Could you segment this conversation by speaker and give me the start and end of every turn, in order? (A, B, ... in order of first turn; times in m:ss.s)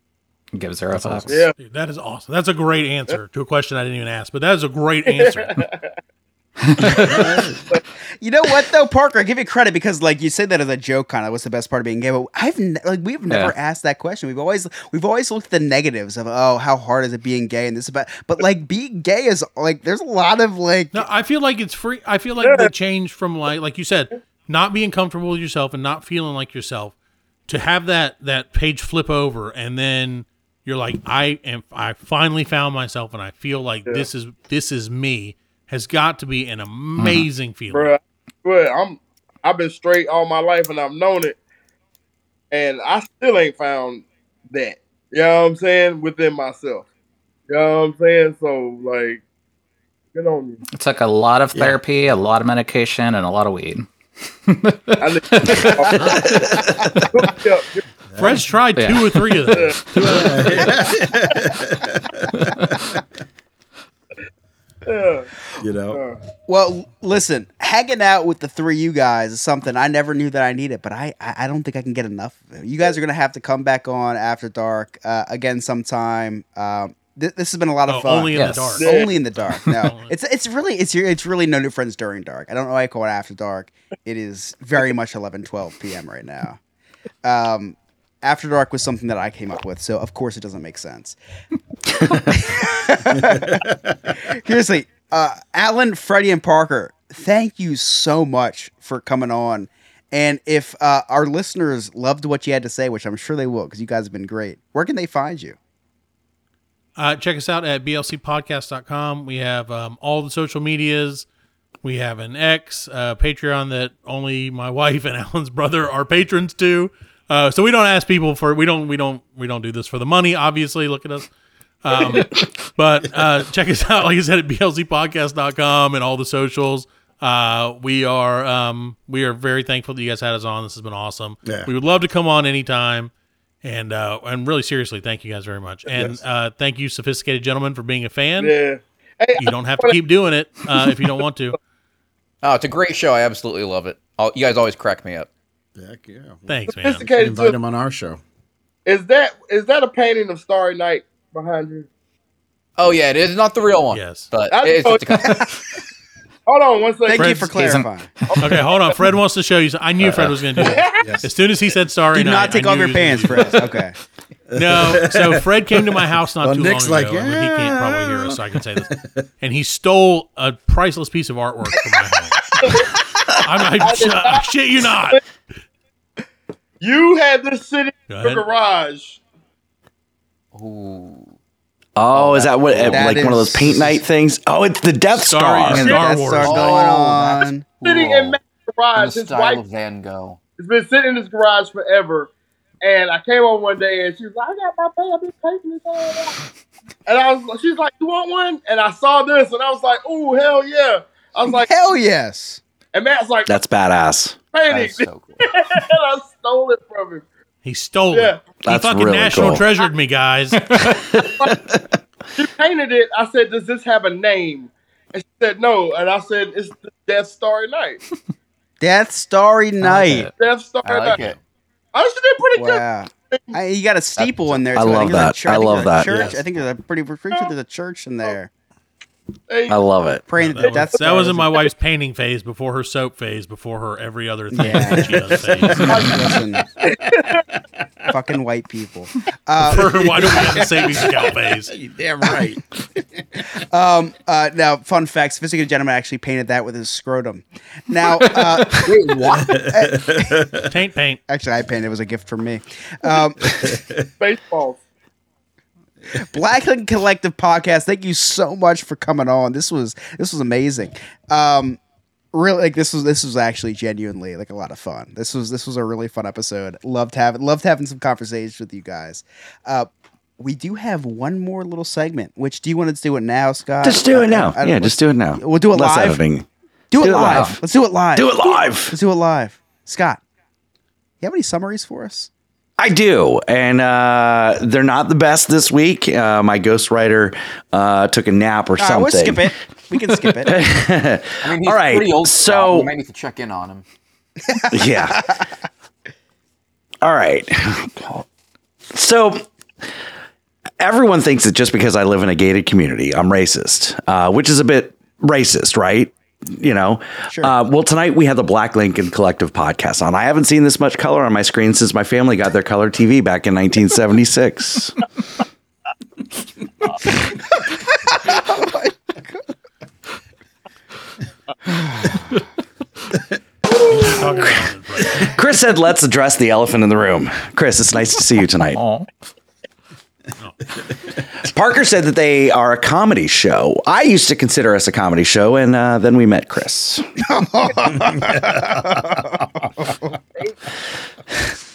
0:00.5-0:01.5 A
0:00.9-0:01.2 B
0:01.3-0:01.5 C
0:01.6-0:05.6 D
0:05.1-0:05.9 C
0:06.6-0:07.5 A
0:07.0-0:07.5 B
0:08.2-0:21.0 E
0:13.3-0:13.5 A
0:20.9-0:26.9 D
0:22.4-0:22.7 C
0:27.5-0:37.9 D
0:37.0-0:37.3 A
0:37.7-0:41.4 C
0:42.5-0:46.8 C
0:47.5-0:49.2 C
0:50.1-0:50.6 C
0:50.7-0:53.9 A
0:51.5-0:51.8 B
0:54.5-0:57.0 A
0:55.0-0:57.8 C
0:58.1-0:58.5 B
0:58.2-1:00.6 D
0:58.8-0:59.4 A
0:59.5-0:59.8 C
0:59.9-1:03.0 B
1:04.8-1:05.3 C
1:05.6-1:06.0 B
1:05.9-1:06.2 C
1:06.4-1:26.6 E
1:17.9-1:20.1 D
1:18.3-1:18.8 A
1:18.8-1:19.1 C
1:27.2-1:31.2 E
1:32.2-1:33.6 E
1:33.1-1:34.1 B
1:34.2-1:45.6 E
1:47.0-1:51.2 D
1:51.8-2:01.3 D
2:01.8-2:13.1 D
2:11.4-2:11.7 B
2:13.6-2:18.5 D
2:15.9-2:16.2 B
2:18.4-2:20.0 C
2:19.4-2:21.6 D
2:22.4-2:25.3 F
2:25.8-2:28.2 B
2:26.5-2:27.0 D
2:26.8-2:27.6 C
2:28.8-2:31.9 C
2:32.8-2:35.5 F
2:33.9-2:34.3 D
2:34.5-2:35.5 C
2:36.5-2:37.4 C
2:37.1-2:38.1 E
2:37.2-2:37.5 D
2:37.4-2:38.4 A
2:38.3-2:38.6 C
2:38.4-2:43.6 D
2:40.0-2:40.4 A
2:40.6-2:41.2 C
2:41.0-2:41.3 B
2:42.1-2:43.9 E
2:44.5-2:49.2 B
2:44.5-2:52.8 D
2:52.6-2:53.0 C
2:53.4-2:55.2 D
2:53.8-2:54.5 C
2:56.8-2:59.2 C
2:58.1-2:58.4 D
3:00.5-3:01.3 F
3:02.0-3:06.0 G
3:02.1-3:03.4 F
3:02.7-3:03.9 E
3:05.2-3:06.8 D
3:05.7-3:07.7 E
3:06.4-3:08.4 F
3:06.6-3:07.1 C
3:07.8-3:09.6 C
3:08.9-3:10.4 F
3:10.6-3:12.3 C
3:12.8-3:16.4 C
3:17.0-3:21.8 C
3:21.5-3:22.6 E
3:22.9-3:23.5 C
3:23.4-3:24.4 G
3:24.5-3:27.2 C
3:24.7-3:25.4 F
3:27.6-3:30.6 D
3:28.1-3:28.5 C
3:28.6-3:29.6 G
3:30.6-3:31.1 A
3:31.2-3:31.8 G
3:32.3-3:38.0 C
3:38.8-3:40.3 E
3:39.8-3:40.3 A
3:40.4-3:41.3 C
3:40.8-3:41.4 F
3:41.9-3:43.6 C
3:42.5-3:48.5 E
3:44.2-3:44.6 F
3:44.7-3:46.2 G
3:46.1-3:46.4 F
3:49.5-3:49.8 C
3:49.7-3:50.2 G
3:50.3-3:51.6 E
3:50.4-3:56.1 D
3:54.5-3:56.7 E
3:54.7-3:56.4 B
3:56.8-3:57.4 C
3:58.1-4:00.4 E
3:59.6-4:01.7 D
4:00.3-4:01.1 B
4:01.7-4:03.4 B
4:03.7-4:08.9 E
4:08.8-4:09.6 F
4:09.3-4:10.7 B
4:09.7-4:10.4 E
4:10.7-4:11.2 D
4:11.3-4:13.7 E
4:13.4-4:14.0 B
4:14.2-4:14.8 C
4:16.2-4:21.8 E
4:22.3-4:36.2 E
4:33.8-4:37.6 G
4:36.9-4:40.2 E
4:37.2-4:37.6 A
4:38.1-4:39.0 G
4:41.2-4:42.3 E
4:42.8-4:52.9 G
4:48.8-4:50.6 E
4:51.4-4:53.8 F
4:54.7-4:55.3 G
4:57.0-4:58.2 G
4:58.9-4:59.5 G
5:00.8-5:15.0 G
5:18.1-5:19.4 E
5:23.8-5:25.3 D
5:25.1-5:28.8 G
5:28.7-5:29.1 A
5:31.4-5:37.1 G
5:37.2-5:40.0 E